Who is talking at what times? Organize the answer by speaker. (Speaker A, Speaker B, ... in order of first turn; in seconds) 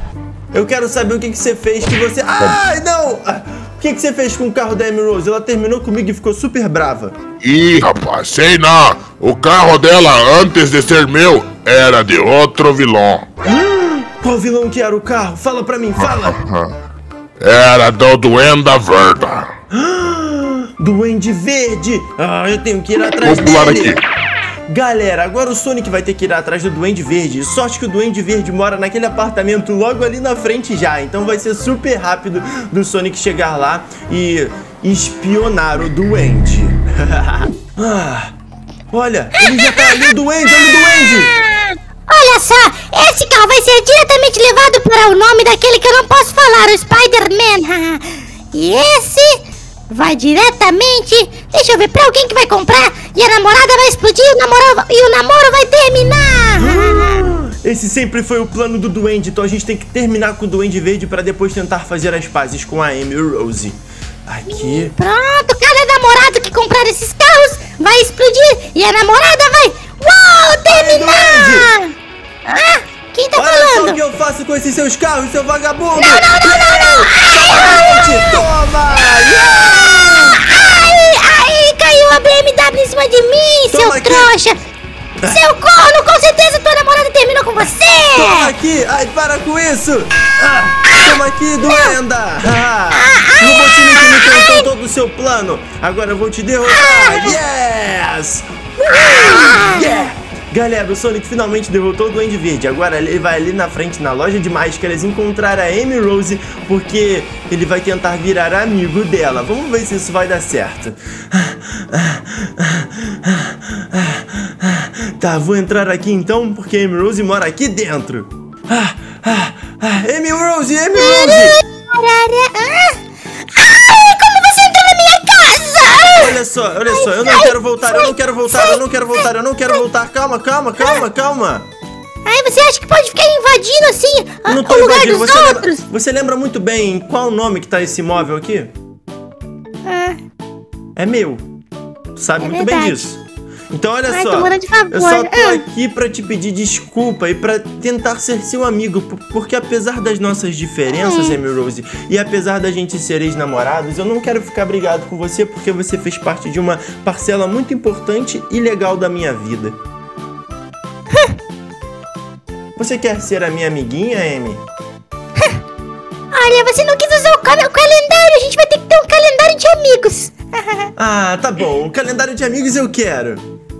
Speaker A: 0.5-7.1, 13.4-16.4, 19.7-24.0, 24.7-38.3, 38.9-41.3, 56.6-64.9, 70.7-71.7, 73.3-80.4, 83.7-84.3, 88.1-121.6, 126.2-131.6, 134.4-138.7, 140.9-141.4, 142.2-159.8, 162.8-164.6, 170.9-173.4
Speaker B: 7.4-13.2, 16.0-16.7, 17.4-19.5, 23.1-24.0
Speaker C: 39.4-57.3, 64.5-71.9, 72.5-74.0, 75.9-78.5, 80.3-84.6, 85.2-88.5, 91.6-91.9, 92.9-94.7, 96.6-97.4, 98.8-99.8, 120.9-123.0, 123.5-126.3, 126.9-129.2, 132.2-135.8, 139.8-140.2, 142.4-143.1, 144.1-145.6, 150.9-151.4, 166.3-170.9